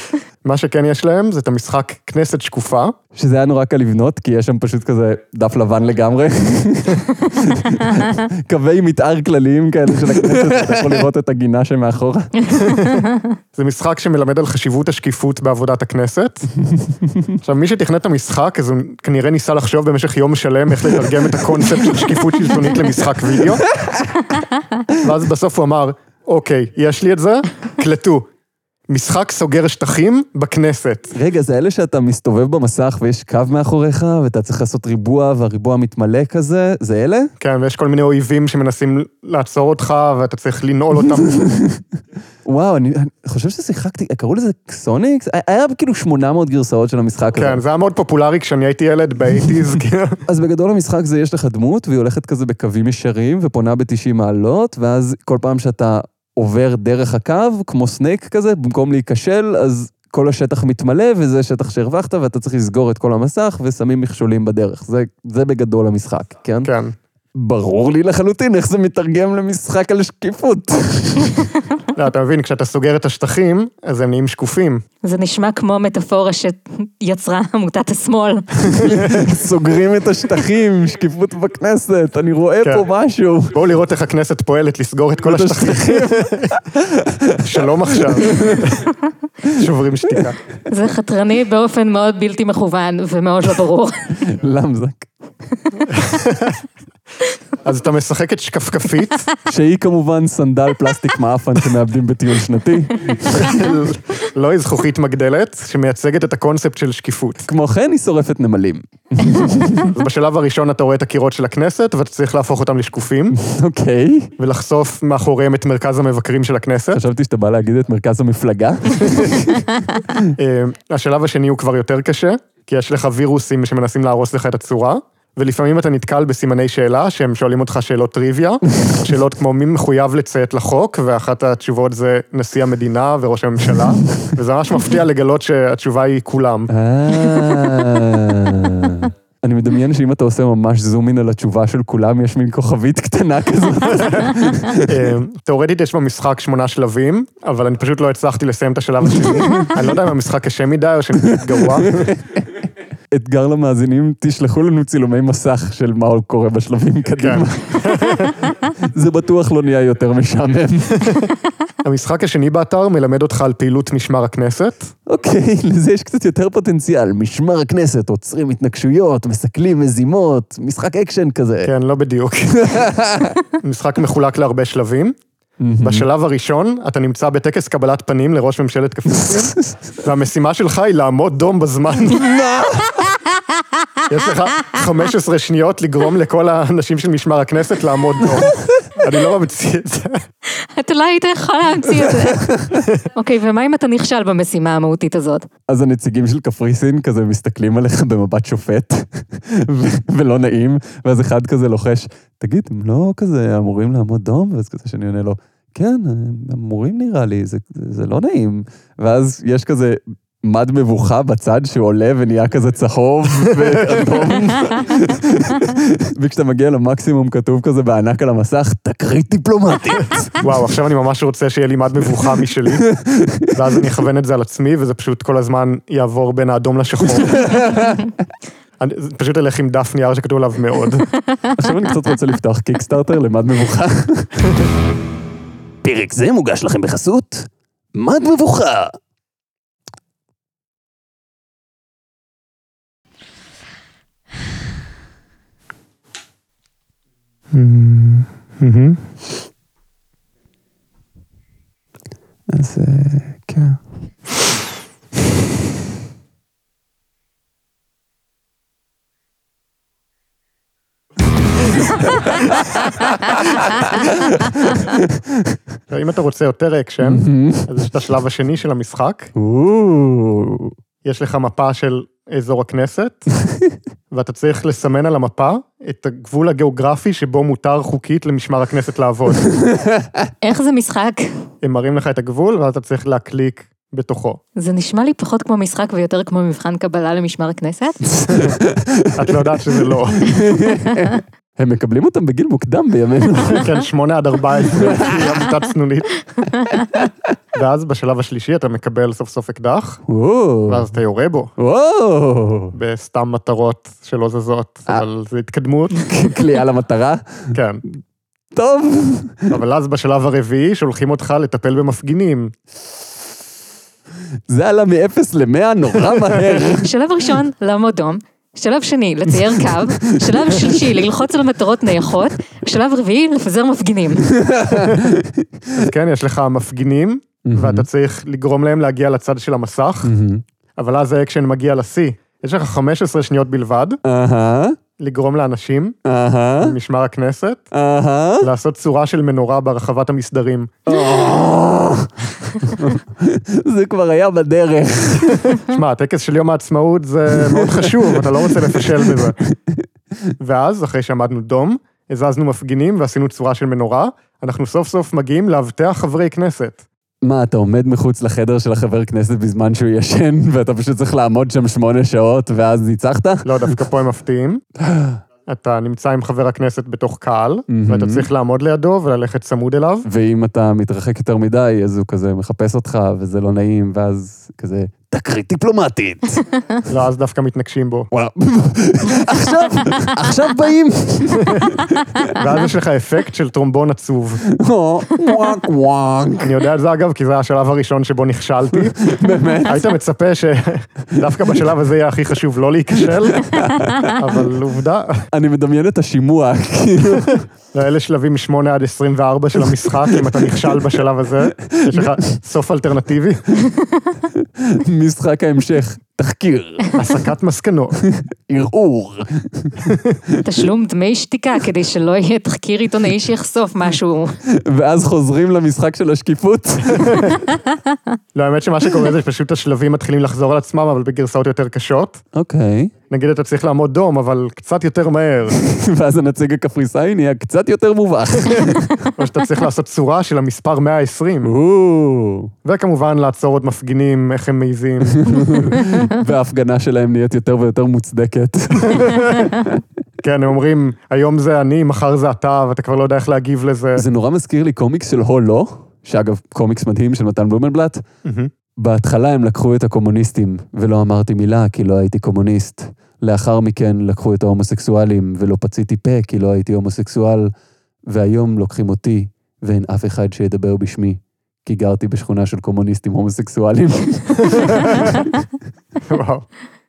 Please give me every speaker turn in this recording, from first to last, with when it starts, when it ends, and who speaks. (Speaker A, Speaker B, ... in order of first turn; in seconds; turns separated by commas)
Speaker A: 0.4-3.0, Speaker B: 3.1-12.4, Speaker A: 10.2-11.0, Speaker C: 12.5-13.3, Speaker A: 12.5-16.5, Speaker B: 16.7-17.3, Speaker A: 17.4-23.7, Speaker B: 23.6-24.4, Speaker A: 25.0-28.3, Speaker A: 28.9-31.1, Speaker B: 31.1-37.3, Speaker A: 37.4-41.5, Speaker B: 41.2-41.8, Speaker B: 42.5-47.6, Speaker A: 47.4-50.2, Speaker B: 50.3-66.7, Speaker A: 66.6-67.0, Speaker B: 67.3-71.5, Speaker A: 72.0-74.8, Speaker C: 75.0-78.5, Speaker B: 78.7-83.6, Speaker A: 82.6-82.9, Speaker A: 83.5-86.5, Speaker B: 85.2-88.8, Speaker A: 87.4-88.9, Speaker A: 89.5-90.4, Speaker C: 90.7-94.2, Speaker B: 94.2-95.1, Speaker C: 95.7-96.0, Speaker A: 95.9-96.6, Speaker A: 97.6-99.3, Speaker B: 99.5-103.6, Speaker A: 103.3-107.5, Speaker B: 107.5-109.9, Speaker A: 109.9-113.4, Speaker B: 113.3-114.3, Speaker A: 114.4-117.0, Speaker B: 116.9-120.3, Speaker A: 120.4-136.7, Speaker B: 136.7-144.9, Speaker A: 144.8-152.0, Speaker B: 151.3-152.6, Speaker B: 153.1-161.1, Speaker A: 157.2-158.3, Speaker A: 161.0-161.3, Speaker A: 161.8-164.9, Speaker B: 165.1-171.7, Speaker A: 171.6-172.9, Speaker B: 172.7-173.4, Speaker A: 173.4-175.2, Speaker B: 175.6-176.1, Speaker A: 175.8-182.3, Speaker B: 179.3-179.8, Speaker B: 182.2-183.0, Speaker A: 184.1-190.2, Speaker C: 190.5-192.6, Speaker C: 193.2-195.5, Speaker B: 195.7-220.4, Speaker A: 213.7-214.1, Speaker A: 220.4-222.9, Speaker B: 222.9-223.5, Speaker A: 223.5-227.7, Speaker B: 227.3-228.1, Speaker A: 228.8-231.1, Speaker B: 231.5-234.4, Speaker B: 235.8-239.0, Speaker A: 247.5-249.0, Speaker B: 252.5-253.8, Speaker B: 263.6-265.5, Speaker A: 265.9-269.3, Speaker B: 267.0-267.8, Speaker B: 269.4-270.7, Speaker A: 271.0-273.3, Speaker A: 274.1-279.4, Speaker B: 279.6-280.3, Speaker C: 280.4-281.3, Speaker A: 281.6-284.4, Speaker C: 284.6-288.0, Speaker B: 288.2-289.4, Speaker A: 288.3-288.6, Speaker A: 289.1-290.5, Speaker B: 290.2-293.7, Speaker A: 293.5-296.2, Speaker B: 294.7-295.5, Speaker A: 297.5-300.0, Speaker B: 300.1-300.9, Speaker A: 300.7-301.5, Speaker B: 301.6-302.8, Speaker A: 302.7-306.1, Speaker B: 306.0-308.0, Speaker A: 307.5-307.8, Speaker B: 308.5-309.6, Speaker A: 309.5-312.5, Speaker B: 314.5-316.9, Speaker C: 316.6-324.4, Speaker B: 320.0-320.9, Speaker B: 324.3-325.9, Speaker A: 324.7-325.0, Speaker A: 325.8-330.1, Speaker B: 327.5-327.9, Speaker B: 330.0-330.4, Speaker A: 330.8-334.0, Speaker B: 334.0-334.8, Speaker A: 335.0-336.0, Speaker B: 336.1-336.8, Speaker A: 336.6-337.7, Speaker B: 337.7-338.5, Speaker A: 338.4-340.8, Speaker B: 340.9-345.6, Speaker A: 345.5-349.4, Speaker B: 347.5-350.3, Speaker A: 350.4-356.8, Speaker B: 357.2-363.8, Speaker A: 363.4-364.6, Speaker B: 364.8-365.2, Speaker A: 365.5-370.1, Speaker B: 367.7-368.3, Speaker B: 370.1-376.5, Speaker A: 376.9-378.1, Speaker B: 378.1-382.3, Speaker A: 382.4-384.5, Speaker B: 384.6-386.5, Speaker A: 386.4-389.0, Speaker B: 389.0-389.8, Speaker A: 389.6-395.2, Speaker B: 393.4-394.1, Speaker B: 395.3-397.5, Speaker A: 397.7-403.4, Speaker B: 401.7-402.3, Speaker B: 404.3-406.9, Speaker A: 407.0-407.9, Speaker B: 408.0-410.4, Speaker A: 409.8-410.2, Speaker C: 410.4-414.4, Speaker B: 414.5-417.3, Speaker A: 416.9-417.3, Speaker A: 418.4-422.2, Speaker B: 422.3-422.9, Speaker A: 423.1-425.6, Speaker B: 425.6-429.1, Speaker A: 429.2-431.5, Speaker B: 431.4-432.5, Speaker A: 432.6-435.6, Speaker B: 435.1-439.8, Speaker A: 438.9-439.5, Speaker A: 440.2-444.0, Speaker B: 444.0-448.0, Speaker A: 448.2-448.5, Speaker B: 448.8-457.5, Speaker B: 458.1-465.3, Speaker A: 464.5-465.1, Speaker A: 466.1-466.5